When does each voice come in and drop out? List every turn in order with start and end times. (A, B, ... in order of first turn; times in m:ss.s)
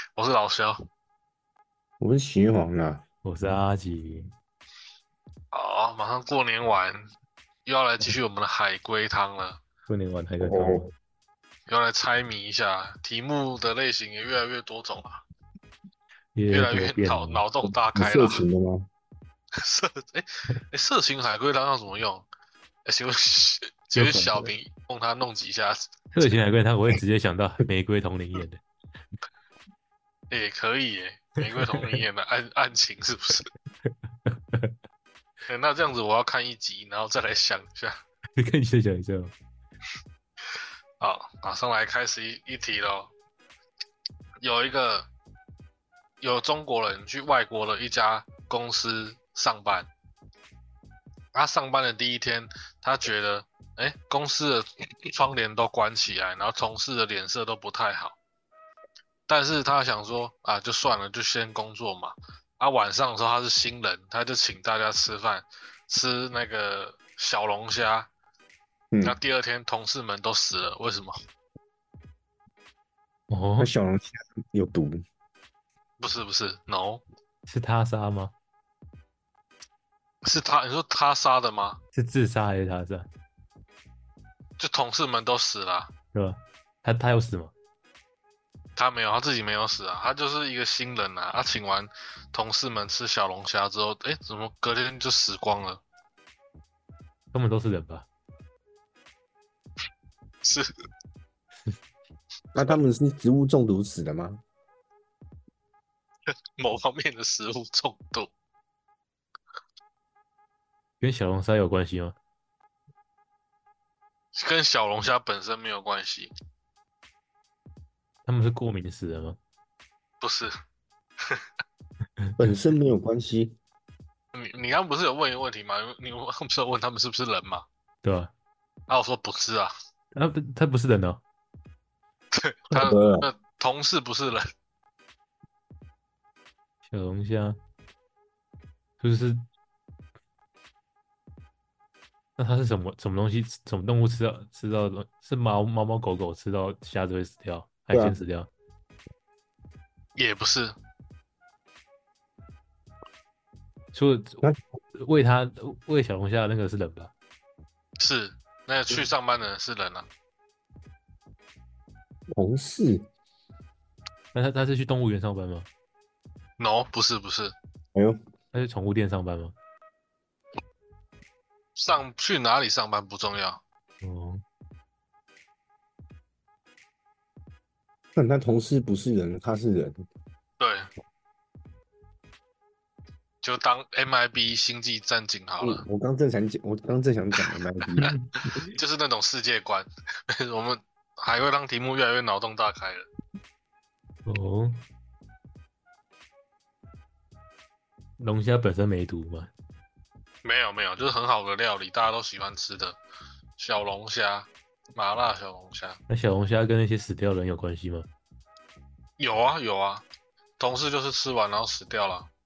0:00.2-0:00.8 A
0:02.0-0:03.0 B
0:03.2-0:04.3 C
0:05.5-0:07.1 A
0:07.6-0:09.6 A
0:09.9-0:10.9 C
0:10.4-0:10.9 B
0:11.7-0:15.2 A
0:16.3-0:17.4 C
0:16.5-0:18.4 A
0:17.9-0:18.9 B
0:19.6-0:22.2 A
0:22.8-0:26.0 A
0:23.9-0:24.5 C
0:26.1-0:28.6 C
0:30.3-0:33.5 A
0:31.7-0:32.0 C
0:34.3-0:34.7 C
0:35.5-0:38.0 A
0:38.4-0:39.3 C
0:41.0-0:43.1 A
0:44.4-0:45.1 A
0:46.2-0:49.9 A
0:51.3-0:58.2 A
0:59.3-1:08.1 A
1:08.9-1:09.2 B
1:09.0-1:11.1 A
1:13.3-1:13.7 C
1:13.6-1:15.0 B
1:16.0-1:17.0 A
1:17.5-1:18.3 C
1:20.2-1:21.8 A
1:21.9-1:23.1 C
1:24.6-1:25.9 A
1:26.1-1:27.5 C
1:28.8-1:35.8 A
1:37.3-1:38.0 C
1:40.4-1:40.7 A
1:42.5-1:44.4 B
1:46.6-1:48.3 A
1:51.0-1:52.2 C
1:54.3-1:56.3 A
1:58.2-1:59.4 C
2:00.2-2:00.5 A
2:02.4-2:03.6 B
2:04.3-2:07.6 A
2:08.0-2:08.3 C
2:08.9-2:09.7 A
2:10.1-2:11.2 C
2:12.3-2:14.5 A
2:12.7-2:13.3 B
2:16.9-2:17.6 C
2:19.0-2:19.4 C
2:22.4-2:28.5 C
2:27.9-2:28.2 B
2:30.2-2:30.8 A
2:33.9-2:34.4 C
2:35.0-2:37.1 C
2:38.0-2:40.1 A
2:42.3-2:43.1 B
2:44.3-2:45.7 C
2:46.6-2:47.5 A
2:48.5-2:49.5 C
2:51.8-2:53.6 A
2:54.0-2:54.4 C
2:58.1-3:00.0 B
3:00.6-3:00.9 A
3:03.4-3:05.8 A
3:05.6-3:08.1 B
3:08.0-3:08.2 C
3:08.5-3:13.1 A
3:14.2-3:14.8 C
3:18.2-3:19.5 C
3:20.4-3:23.0 A
3:23.6-3:26.0 A
3:26.1-3:28.1 C
3:29.2-3:30.0 A
3:30.6-3:32.3 A